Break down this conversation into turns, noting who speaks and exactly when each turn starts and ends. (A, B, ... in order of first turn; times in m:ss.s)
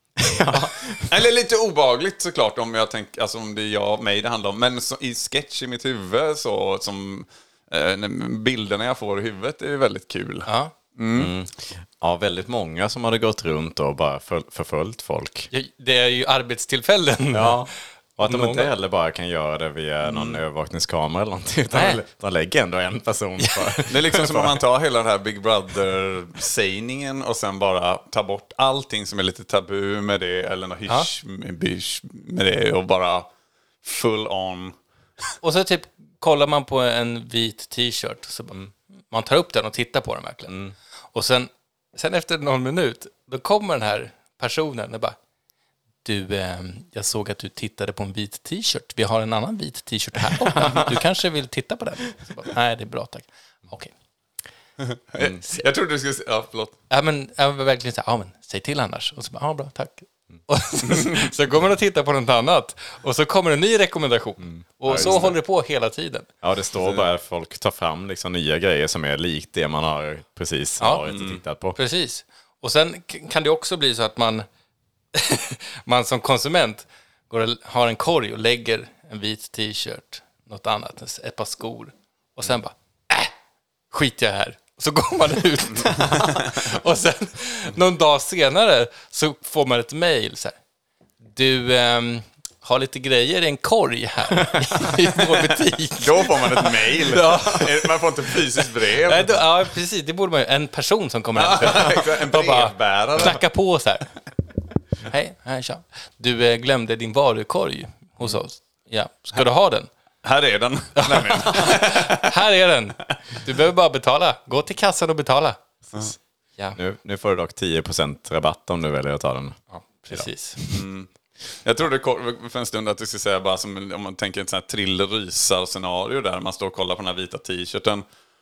0:00.2-0:01.2 A
0:01.1-0:11.3 B
0:10.4-0:10.7 C
0:11.1-0:15.5 A
0:15.5-0:17.7 C
0:17.3-0:24.6 A
0:18.2-0:18.7 C
0:20.0-0:20.4 B
0:21.7-0:22.0 C
0:23.9-0:33.3 B
0:33.8-0:34.8 B
0:35.4-0:40.6 C
0:40.5-0:40.7 A
0:41.1-0:45.2 C
0:46.0-0:53.9 C
0:54.8-0:56.8 B
0:56.9-1:06.3 C
1:04.5-1:05.3 A
1:04.9-1:05.3 B
1:06.4-1:11.8 A
1:06.8-1:07.0 B
1:10.8-1:11.1 C
1:11.1-1:11.4 B
1:11.8-1:14.4 C
1:15.1-1:23.3 C
1:23.9-1:30.6 C
1:25.8-1:26.5 B
1:31.2-1:37.8 C
1:36.0-1:39.4 B
1:37.3-1:37.6 A
1:39.0-1:44.1 C
1:41.4-1:43.4 B
1:45.0-1:49.9 C
1:50.2-1:52.3 B
1:51.0-1:55.6 C
1:56.8-1:59.6 A
1:59.7-2:00.6 C
2:00.1-2:00.8 A
2:00.7-2:01.1 B
2:01.6-2:08.0 B